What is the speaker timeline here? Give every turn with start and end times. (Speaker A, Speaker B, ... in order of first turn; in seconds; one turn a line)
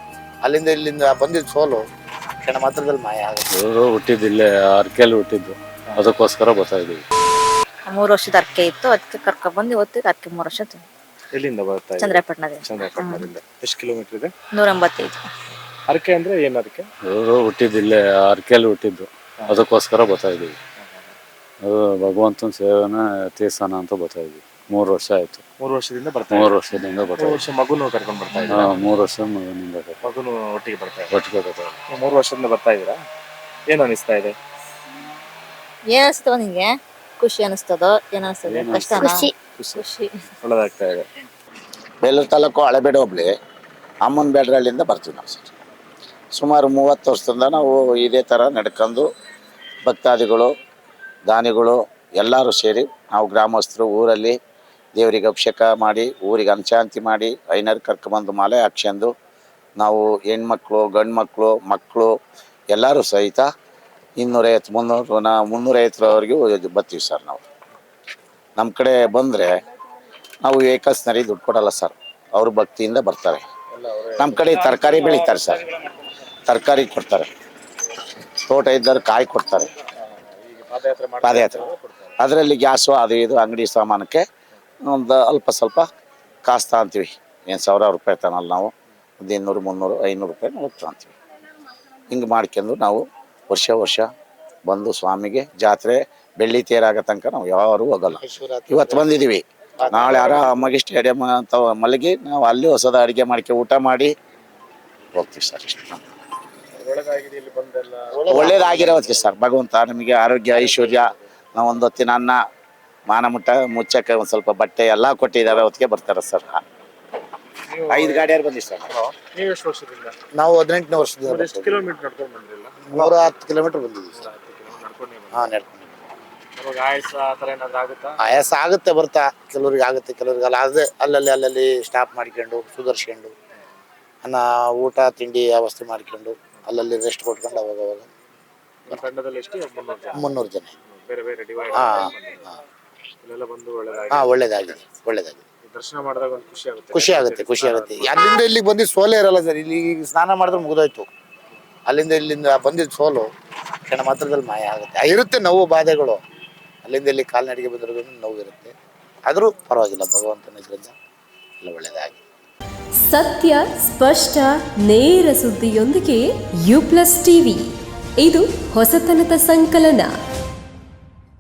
Speaker A: 0.4-1.8
Speaker A: 2.4-3.5
Speaker B: 3.5-7.0
Speaker C: 7.9-10.8
Speaker D: 11.3-14.3
Speaker C: 12.0-13.3
Speaker C: 14.5-15.3
Speaker D: 15.9-16.9
Speaker B: 17.1-20.6
Speaker D: 20.8-21.1
Speaker B: 21.6-25.4
Speaker D: 25.6-26.6
Speaker B: 26.3-27.4
Speaker D: 27.2-28.8
Speaker B: 28.5-30.0
Speaker D: 30.0-31.1
Speaker B: 31.1-31.8
Speaker D: 31.9-33.0
Speaker D: 33.7-34.4
Speaker C: 35.9-40.2
Speaker D: 38.5-39.9
Speaker B: 38.5-39.2
Speaker D: 40.4-41.1
Speaker E: 42.0-43.3
Speaker E: 44.0-45.5
Speaker E: 46.3-49.1
Speaker E: 49.8-50.5
Speaker E: 51.3-54.4
Speaker E: 55.0-59.1
Speaker E: 59.8-62.1
Speaker E: 62.7-63.5
Speaker E: 64.2-67.4
Speaker E: 68.6-69.5
Speaker E: 70.4-73.4
Speaker D: 73.7-75.1
Speaker E: 74.2-75.6
Speaker E: 76.5-77.3
Speaker E: 78.5-79.7
Speaker D: 80.4-82.1
Speaker E: 81.2-81.7
Speaker E: 82.2-84.2
Speaker E: 84.8-85.9
Speaker E: 86.5-91.2
Speaker E: 92.1-94.1
Speaker E: 94.7-104.1
Speaker A: 98.2-99.2
Speaker D: 99.8-100.6
Speaker A: 99.8-100.4
Speaker E: 105.2-106.0
Speaker D: 106.8-108.9
Speaker A: 108.1-109.0
Speaker E: 108.3-112.4
Speaker D: 110.5-111.2
Speaker E: 113.1-116.6
Speaker D: 117.7-118.3
Speaker E: 117.9-118.9
Speaker D: 118.9-120.2
Speaker A: 120.4-121.9
Speaker D: 121.2-123.3
Speaker A: 122.9-124.2
Speaker D: 124.2-125.6
Speaker A: 125.3-126.0
Speaker D: 126.6-128.2
Speaker A: 128.2-133.3
Speaker A: 134.2-138.1
Speaker D: 138.9-140.3
Speaker A: 140.2-140.8
Speaker D: 140.9-142.4
Speaker A: 141.7-142.5
Speaker D: 143.2-144.8
Speaker A: 144.1-145.4
Speaker D: 145.7-148.2
Speaker A: 146.9-151.1
Speaker A: 151.9-153.3
Speaker A: 153.9-156.2
Speaker A: 156.8-158.7
Speaker A: 159.3-160.9
Speaker A: 161.6-162.2
Speaker F: 163.0-167.7
Speaker F: 168.2-170.1